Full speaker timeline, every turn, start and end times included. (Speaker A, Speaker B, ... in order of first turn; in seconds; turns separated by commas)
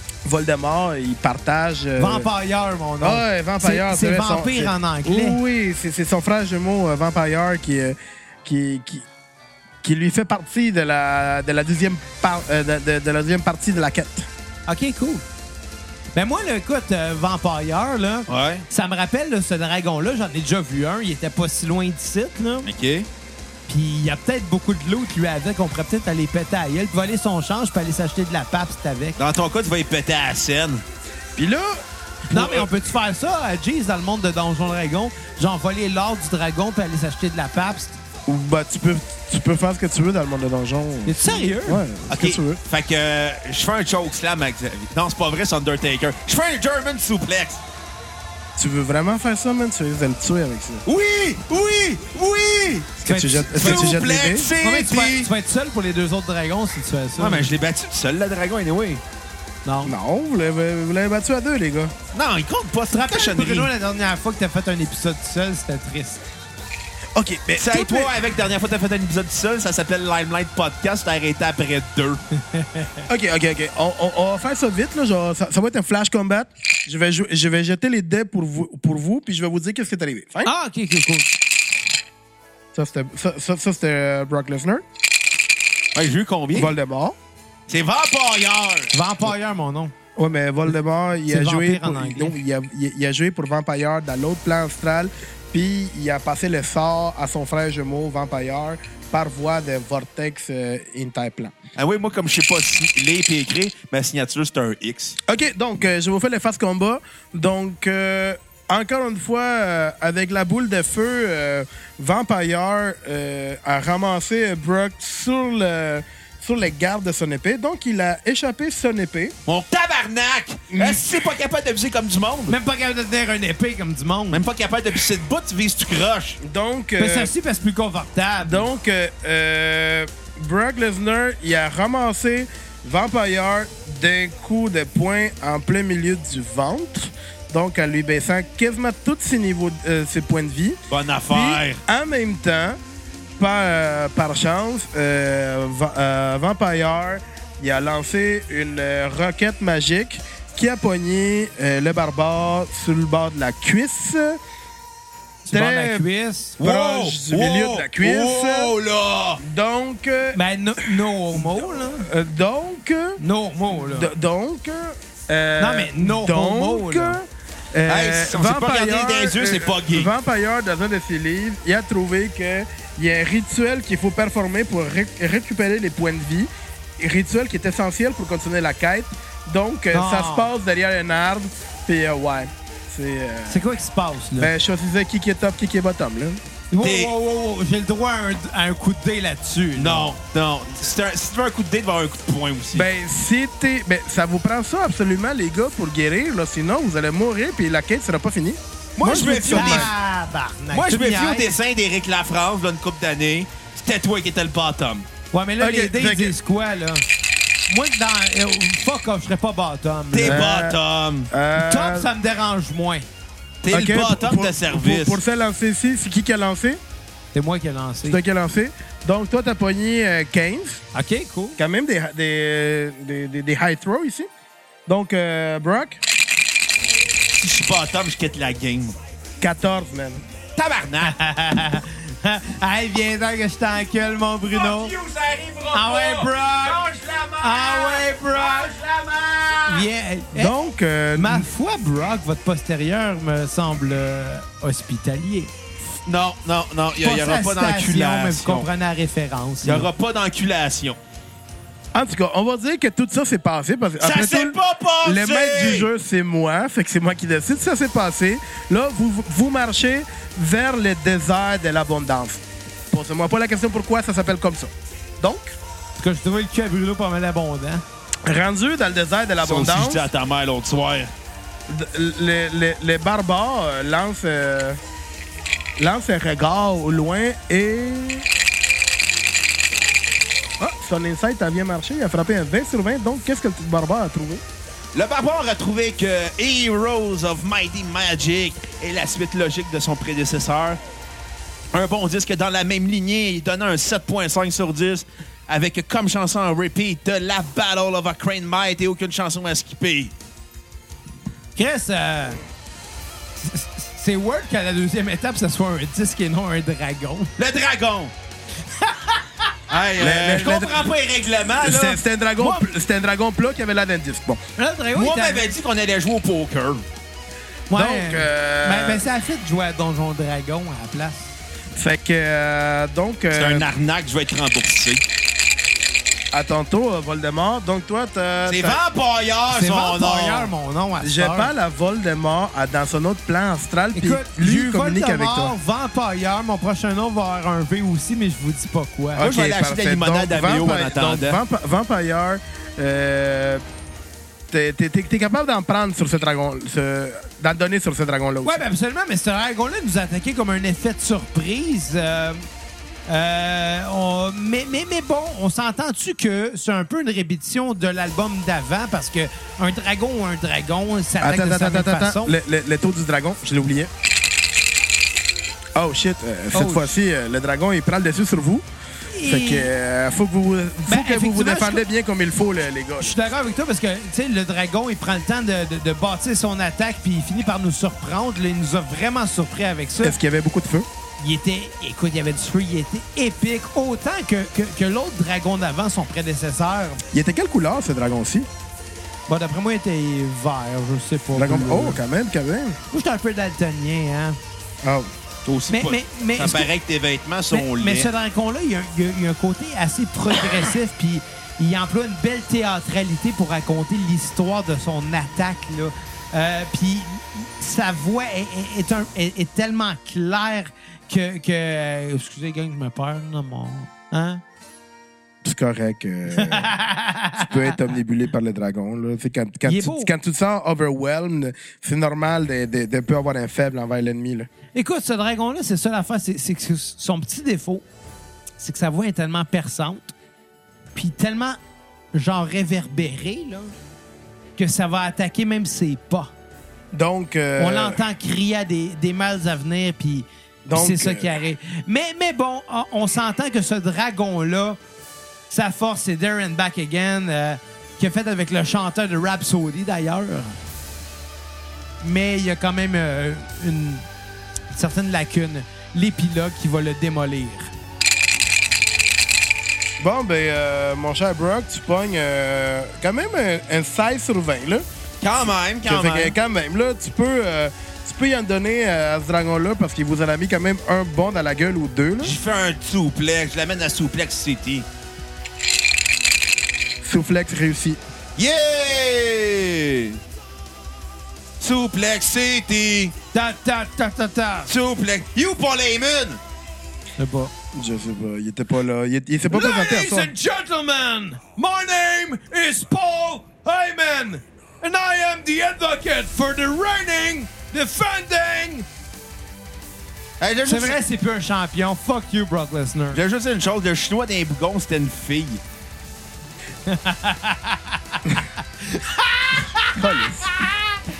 Speaker A: 0.2-2.3, Speaker B: 2.0-5.4, Speaker A: 3.0-9.1, Speaker A: 9.8-14.3, Speaker B: 14.7-15.2, Speaker B: 16.1-22.7, Speaker C: 18.3-18.6, Speaker C: 22.6-23.1, Speaker B: 23.7-29.2, Speaker C: 29.2-30.8, Speaker A: 31.4-31.8, Speaker B: 32.3-38.0, Speaker A: 32.3-32.7, Speaker A: 38.3-42.6, Speaker B: 41.1-41.8, Speaker C: 42.1-47.6, Speaker A: 48.6-50.9, Speaker C: 50.9-55.3, Speaker B: 53.0-53.9, Speaker A: 53.1-54.5, Speaker B: 54.6-57.5, Speaker C: 57.2-59.0, Speaker B: 59.6-59.9, Speaker A: 59.9-61.9, Speaker C: 62.1-63.7, Speaker B: 62.9-66.3, Speaker A: 67.2-68.2, Speaker C: 67.6-72.2, Speaker B: 72.4-73.0, Speaker A: 73.1-80.5, Speaker B: 80.4-81.3, Speaker A: 82.7-84.8, Speaker C: 86.0-86.7, Speaker A: 86.5-87.2, Speaker C: 87.7-88.9, Speaker B: 88.9-89.9, Speaker A: 90.2-101.5, Speaker B: 91.3-92.4, Speaker C: 101.8-105.2, Speaker A: 105.3-119.3, Speaker C: 119.5-122.6, Speaker A: 120.7-121.0, Speaker B: 122.5-124.4, Speaker C: 124.3-126.4, Speaker A: 126.4-127.3, Speaker B: 127.0-128.7, Speaker A: 128.4-140.8, Speaker C: 140.9-141.8, Speaker A: 141.3-142.8, Speaker A: 143.4-154.4, Speaker B: 155.5-156.6, Speaker A: 155.5-156.1, Speaker A: 156.6-158.7, Speaker C: 156.6-159.4, Speaker A: 159.4-160.4, Speaker B: 160.3-162.1, Speaker A: 161.3-163.2, Speaker B: 163.2-164.1, Speaker A: 163.8-183.6, Speaker B: 165.6-167.2, Speaker C: 167.9-170.1, Speaker B: 179.9-180.5, Speaker B: 183.5-184.5, Speaker A: 184.4-186.4, Speaker B: 186.7-190.2, Speaker C: 186.8-187.1, Speaker C: 189.8-192.9, Speaker A: 192.7-199.9, Speaker C: 199.0-199.9, Speaker B: 199.5-201.5, Speaker C: 200.7-205.1, Speaker B: 205.3-207.0, Speaker A: 205.6-206.3, Speaker B: 207.7-210.4, Speaker C: 210.1-211.3, Speaker A: 210.2-210.8, Speaker A: 211.3-212.1, Speaker B: 211.6-213.1, Speaker C: 213.6-215.2, Speaker A: 213.7-216.8, Speaker B: 217.3-218.2, Speaker A: 218.1-220.8, Speaker B: 220.9-221.6, Speaker A: 221.6-224.3, Speaker A: 224.9-226.0, Speaker C: 227.4-229.0, Speaker A: 229.4-230.2, Speaker C: 230.6-231.2, Speaker B: 231.0-234.9, Speaker C: 234.5-239.9, Speaker B: 235.7-236.8, Speaker B: 237.4-238.7, Speaker B: 239.7-240.5, Speaker A: 240.3-241.5, Speaker B: 241.2-245.5, Speaker C: 246.1-248.7, Speaker B: 247.0-249.9, Speaker C: 249.6-251.0, Speaker A: 251.9-265.6, Speaker C: 254.0-255.9, Speaker B: 266.0-267.9, Speaker A: 268.2-270.1, Speaker C: 269.4-271.1, Speaker A: 271.7-274.8, Speaker A: 275.8-278.3, Speaker A: 280.6-284.4, Speaker C: 284.9-290.8, Speaker C: 291.7-300.1, Speaker B: 301.6-302.4, Speaker B: 303.4-307.3, Speaker C: 307.4-308.1, Speaker B: 308.7-309.5, Speaker C: 309.7-312.0, Speaker A: 310.0-310.9, Speaker A: 311.5-314.4, Speaker B: 314.6-315.5, Speaker C: 314.9-316.8, Speaker B: 317.7-321.3, Speaker A: 317.7-319.1, Speaker A: 321.8-323.7, Speaker C: 323.3-325.0, Speaker A: 326.3-328.8, Speaker C: 328.5-330.5, Speaker B: 329.5-331.5, Speaker A: 331.0-335.5, Speaker B: 333.9-339.3, Speaker A: 339.2-343.6, Speaker C: 339.2-341.4, Speaker A: 344.5-348.6, Speaker B: 348.4-352.5, Speaker B: 353.1-362.4, Speaker A: 361.2-363.9, Speaker A: 365.8-368.6, Speaker B: 366.5-366.9, Speaker B: 369.1-369.7, Speaker A: 369.2-373.1, Speaker B: 370.9-371.8, Speaker B: 373.0-380.2, Speaker A: 380.0-380.9, Speaker B: 381.2-387.0, Speaker A: 387.1-388.5, Speaker B: 389.3-392.0, Speaker A: 391.4-392.8, Speaker B: 392.9-394.4, Speaker A: 394.8-395.1, Speaker C: 395.4-398.1, Speaker B: 395.7-396.7, Speaker B: 397.5-414.4, Speaker A: 415.4-416.7, Speaker B: 416.3-417.8, Speaker A: 417.4-424.5, Speaker B: 419.7-420.1, Speaker B: 424.8-427.9, Speaker B: 428.6-430.1, Speaker B: 430.9-431.6, Speaker B: 432.1-433.8, Speaker B: 434.6-436.3, Speaker A: 436.9-438.0, Speaker B: 437.6-444.8, Speaker A: 440.7-441.3, Speaker B: 445.5-450.6, Speaker B: 452.0-454.1, Speaker B: 454.7-457.7, Speaker A: 460.0-464.9, Speaker C: 465.2-466.4, Speaker A: 465.9-472.4, Speaker C: 472.2-474.9, Speaker A: 477.0-478.0, Speaker C: 478.4-480.2, Speaker C: 481.6-483.1, Speaker B: 483.3-484.7, Speaker C: 484.7-486.4, Speaker B: 487.2-487.5, Speaker A: 487.7-490.3, Speaker B: 489.5-498.9, Speaker C: 500.4-501.0, Speaker B: 500.7-503.2, Speaker C: 503.1-505.6, Speaker B: 506.9-511.0, Speaker A: 509.9-510.5